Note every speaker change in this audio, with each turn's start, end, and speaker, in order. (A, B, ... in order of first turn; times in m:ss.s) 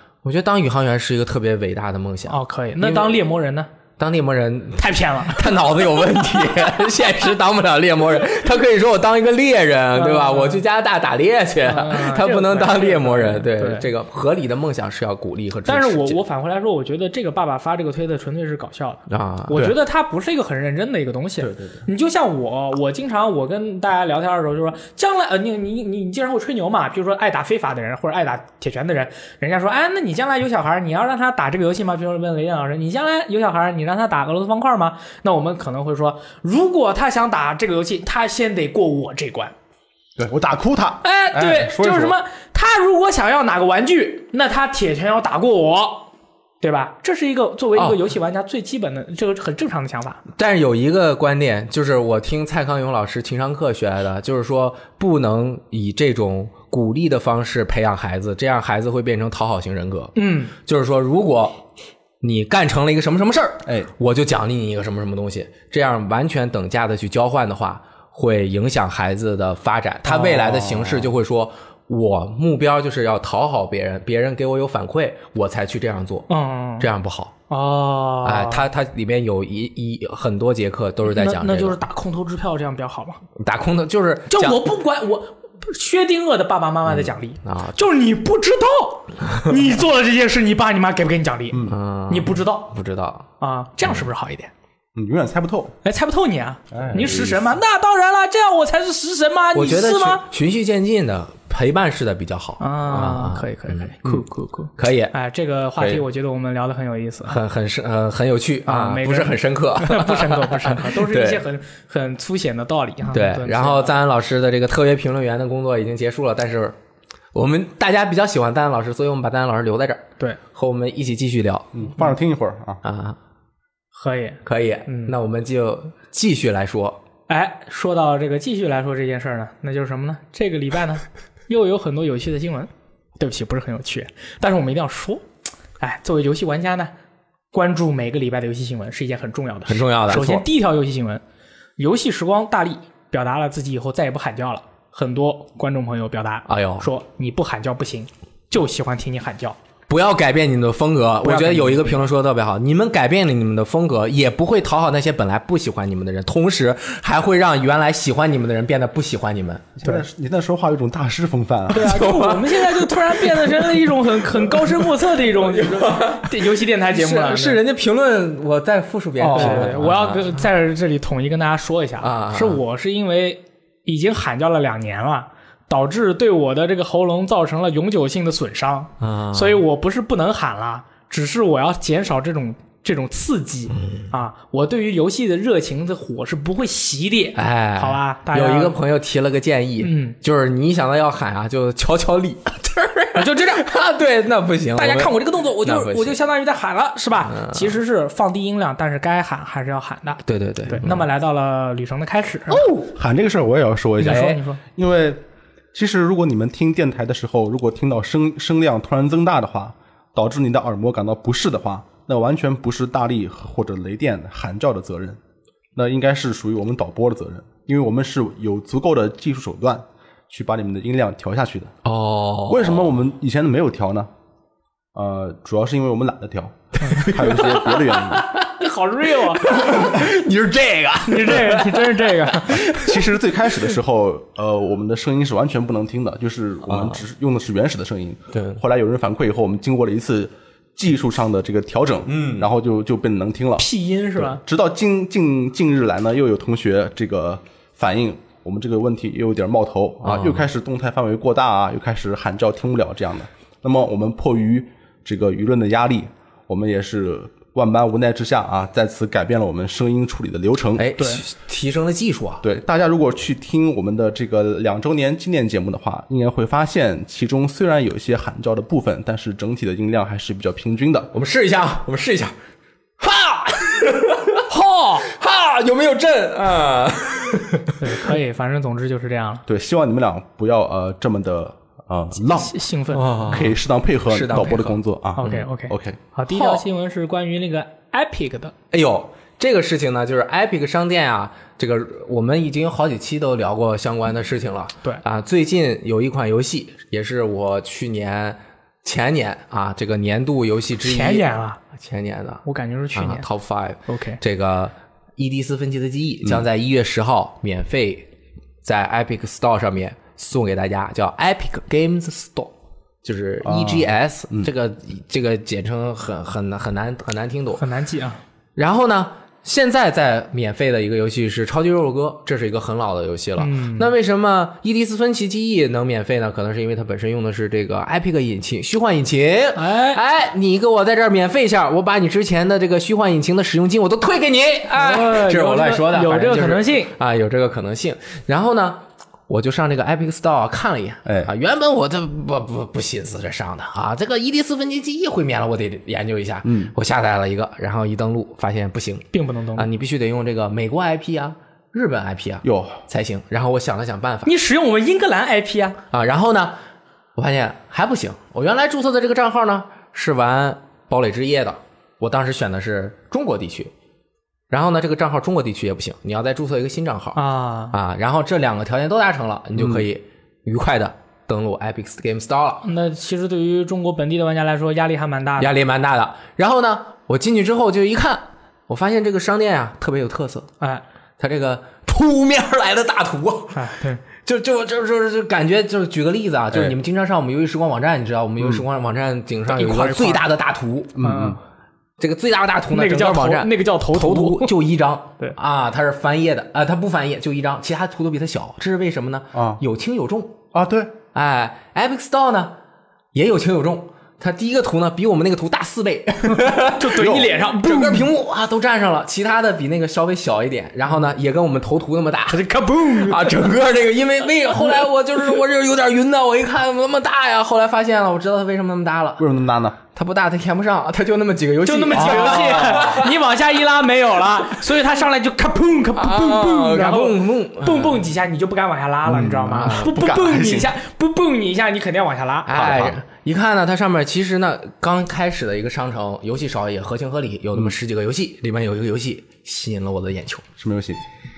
0:00.2-0:03.2 A
0:02.3-0:03.7 B
0:04.0-0:16.2 A
0:04.8-0:05.6 B
0:09.9-0:10.6 B
0:11.6-0:13.9 B
0:15.6-0:39.5 B
0:19.1-0:19.7 A
0:40.2-0:42.2 C
0:41.0-0:46.1 B
0:46.6-0:50.2 B
0:47.8-0:48.0 A
0:50.4-1:01.6 A
1:00.2-1:00.5 B
1:02.2-1:16.3 A
1:10.0-1:10.5 B
1:10.5-1:11.1 C
1:16.3-1:16.9 B
1:16.8-1:17.3 A
1:17.5-1:18.6 B
1:18.2-1:21.8 A
1:21.0-1:23.2 B
1:23.4-1:24.7 A
1:24.3-1:32.7 B
1:26.8-1:27.8 A
1:31.6-1:33.2 A
1:33.4-1:34.5 B
1:35.0-1:35.7 C
1:35.8-1:40.2 B
1:36.7-1:37.5 C
1:39.5-1:44.2 A
1:42.6-1:47.4 B
1:44.8-1:45.1 A
1:47.3-1:51.4 A
1:48.7-1:54.0 B
1:53.1-1:56.8 A
1:57.3-2:01.7 A
2:01.7-2:02.8 C
2:02.8-2:03.2 A
2:03.9-2:05.1 B
2:04.4-2:07.0 A
2:07.3-2:15.2 B
2:15.8-2:16.9 B
2:17.5-2:21.2 B
2:19.7-2:20.4 A
2:21.8-2:29.6 B
2:26.5-2:26.9 A
2:29.9-2:39.8 A
2:31.2-2:32.0 B
2:39.8-2:42.0 C
2:41.7-2:47.6 B
2:41.7-2:50.4 A
2:49.2-2:49.8 C
2:49.3-3:08.8 B
2:52.0-2:52.6 A
2:59.0-2:59.6 A
3:03.7-3:04.1 A
3:07.3-3:16.2 A
3:09.8-3:10.2 B
3:13.1-3:13.7 B
3:14.7-3:22.7 B
3:17.2-3:17.8 A
3:20.2-3:21.0 A
3:22.5-3:22.8 A
3:22.9-3:25.2 C
3:24.0-3:24.6 B
3:24.0-3:24.4 A
3:25.7-3:35.2 C
3:35.7-3:41.7 C
3:41.8-3:42.9 A
3:42.5-3:44.1 C
3:44.9-3:48.3 C
3:46.8-3:48.5 A
3:48.4-3:49.8 B
3:49.1-3:53.0 A
3:51.1-3:52.7 B
3:52.8-4:20.8 C
3:56.7-3:57.0 A
3:58.3-3:58.6 A
4:02.1-4:02.5 A
4:03.6-4:04.4 B
4:10.0-4:10.4 A
4:20.8-4:22.4 A
4:22.4-4:31.1 C
4:31.1-4:32.4 A
4:33.0-4:34.4 A
4:34.5-4:35.1 B
4:35.0-4:37.8 A
4:37.8-4:39.4 B
4:39.5-4:42.5 C
4:42.2-4:43.4 B
4:42.9-4:43.5 A
4:43.3-4:46.0 C
4:44.1-4:45.5 A
4:45.2-4:48.5 B
4:46.3-4:46.6 A
4:48.7-5:02.4 A
5:00.8-5:01.6 B
5:02.4-5:03.2 B
5:02.9-5:08.1 A
5:03.9-5:04.2 B
5:08.6-5:12.5 A
5:13.0-5:17.6 A
5:13.4-5:14.5 C
5:17.6-5:18.2 B
5:18.6-5:54.3 A
5:23.4-5:23.9 B
5:29.5-5:30.0 B
5:34.7-5:36.9 B
5:46.4-5:46.7 C
5:49.1-5:49.7 B
5:52.4-5:52.8 C
5:54.2-5:55.8 B
5:55.9-5:56.6 A
5:57.2-6:03.7 A
6:04.5-6:12.6 A
6:07.1-6:07.7 B
6:09.6-6:09.8 C
6:12.6-6:15.5 B
6:15.4-6:20.5 A
6:21.2-6:31.0 A
6:23.5-6:24.0 B
6:29.5-6:30.2 B
6:30.9-6:31.4 C
6:31.0-6:31.4 B
6:32.0-6:40.4 A
6:32.7-6:34.5 B
6:39.3-6:39.6 C
6:40.5-6:40.9 C
6:41.1-6:42.6 A
6:43.1-6:59.2 A
6:46.3-6:48.1 B
6:47.0-6:47.3 C
6:52.3-6:53.4 B
6:59.2-6:59.8 C
6:59.9-7:03.1 A
7:01.6-7:12.5 B
7:01.9-7:02.8 C
7:06.0-7:08.0 A
7:09.0-7:10.7 C
7:09.5-7:09.9 A
7:12.4-7:20.4 A
7:12.5-7:13.0 C
7:20.6-7:21.0 C